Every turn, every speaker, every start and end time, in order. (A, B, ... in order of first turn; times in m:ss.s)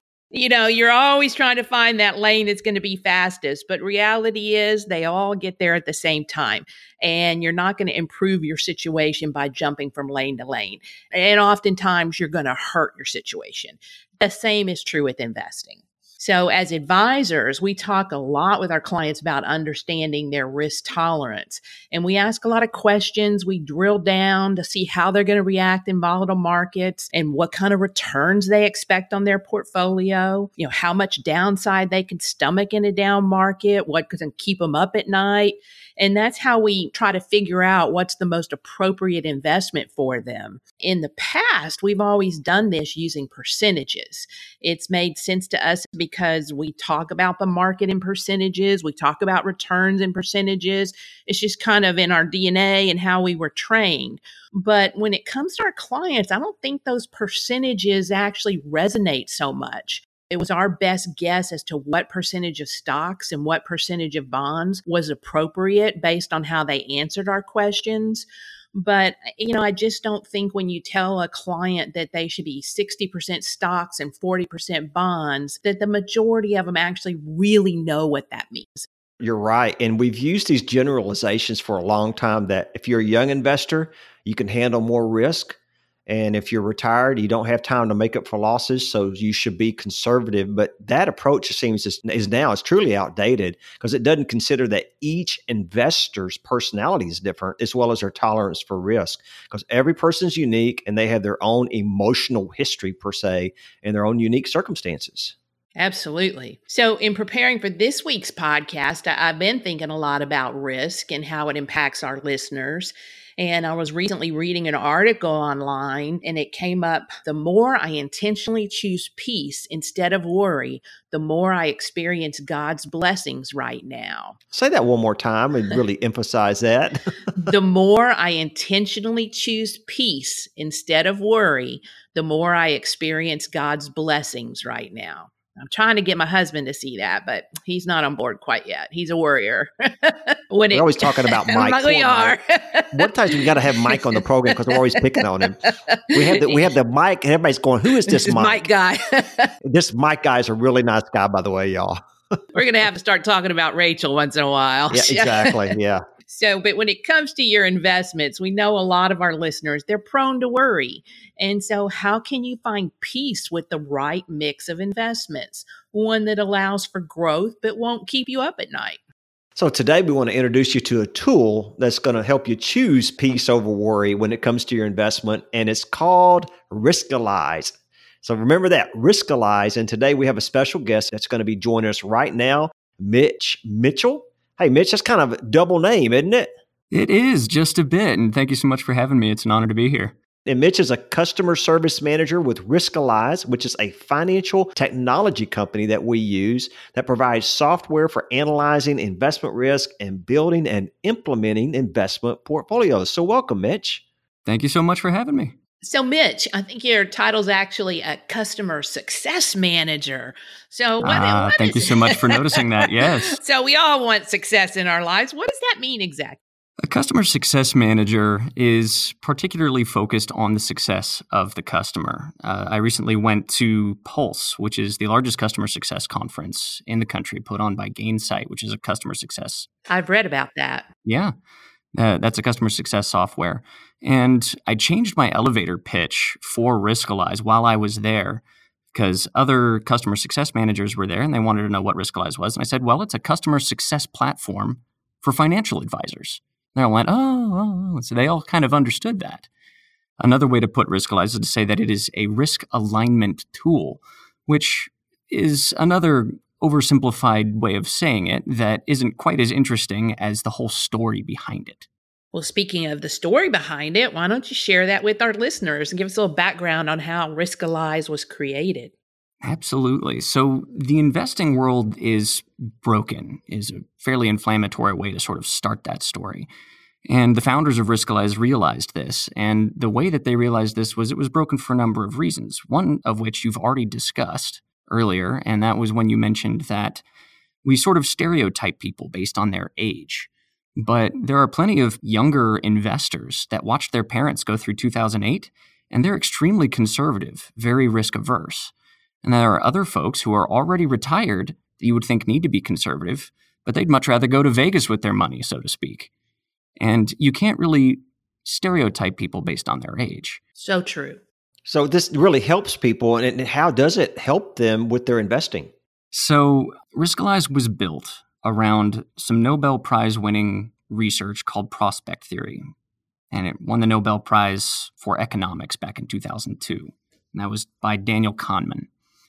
0:00.3-1:18.8 A
1:19.2-1:25.5 B
1:26.1-1:45.3 B
1:45.8-2:04.4 A
2:04.5-2:07.0 B
2:07.4-2:25.1 A
2:20.7-2:22.4 B
2:22.9-2:25.6 B
2:25.6-2:26.7 A
2:26.1-2:28.7 B
2:28.1-2:29.5 A
2:29.6-2:32.0 B
2:32.5-2:35.7 A
2:34.9-2:36.0 B
2:36.3-2:49.0 A
2:49.6-3:06.5 B
3:06.9-3:10.2 C
3:10.4-3:24.0 B
3:24.4-3:25.6 C
3:25.8-3:36.4 A
3:31.0-3:33.4 C
3:36.8-3:49.7 C
3:49.9-3:50.9 A
3:51.0-3:51.3 C
3:51.9-4:09.5 C
4:10.2-4:21.9 C
4:22.3-4:28.9 A
4:29.4-4:36.5 C
4:37.0-4:47.0 C
4:47.6-4:58.7 C
4:59.2-5:06.1 C
5:06.8-5:10.4 C
5:10.6-5:11.2 A
5:11.7-5:15.7 B
5:16.1-5:22.7 C
5:23.3-5:28.9 C